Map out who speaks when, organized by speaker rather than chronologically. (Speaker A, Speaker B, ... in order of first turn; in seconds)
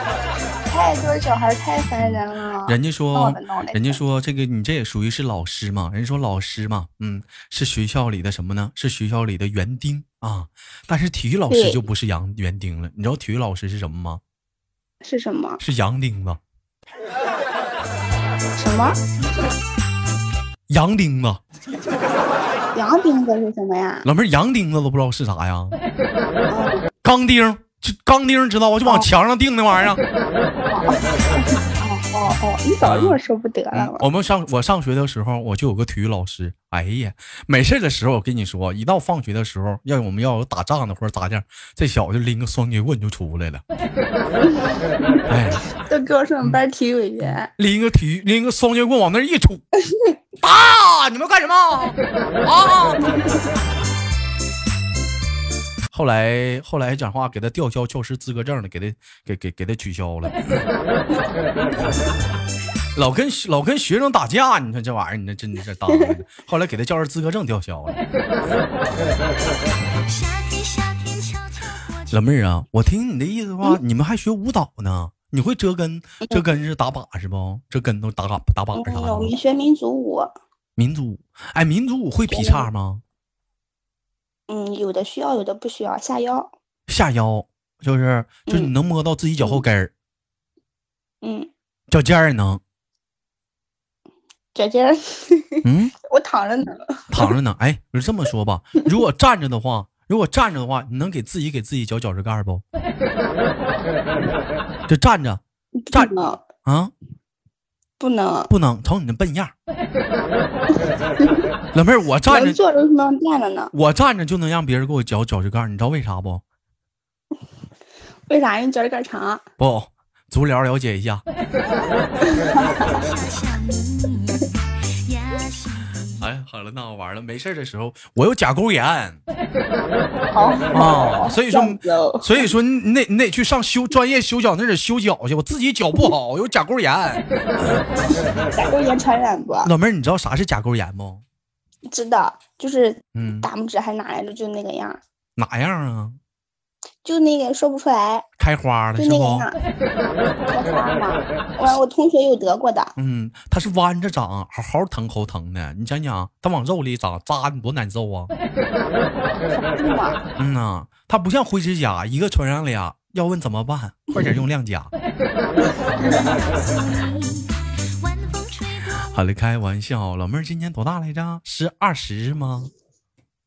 Speaker A: 0.7-4.0, 11.5-11.8, 15.0-15.6, 18.6-19.0, 22.7-24.1, 26.5-26.8, 30.7-34.1, 45.8-47.5, 65.9-66.2, 78.8-80.3, 82.3-82.7, 84.5-86.5, 91.2-91.5, 94.5-97.3, 105.8-106.4, 108.0-108.5, 112.3-113.7, 118.3-119.4, 122.2-123.0, 130.3-132.5, 138.5-139.7, 141.9-145.0, 147.0-148.3, 149.0-149.6, 150.5-152.9, 159.5-160.2, 166.0-166.4
Speaker B: 2.0-14.2, 15.6-16.4, 20.7-21.4, 24.1-25.8, 27.0-30.0, 32.8-33.2, 33.7-43.6, 45.3-45.6, 47.5-49.6, 50.4-53.1, 55.9-60.7, 63.0-68.0, 72.1-79.3, 80.8-83.0, 86.9-89.9, 91.9-92.6, 95.7-95.9, 97.1-102.6, 104.9-105.4, 106.6-106.9, 108.5-109.5, 111.7-112.6, 113.7-116.4, 119.6-121.2, 126.2-129.2, 130.7-138.5, 139.6-141.2, 143.2-143.5, 145.4-146.2, 148.4-149.5, 153.0-158.3, 160.4-164.9, 169.0-172.7
Speaker C: 70.0-72.2, 122.7-126.2, 166.0-169.1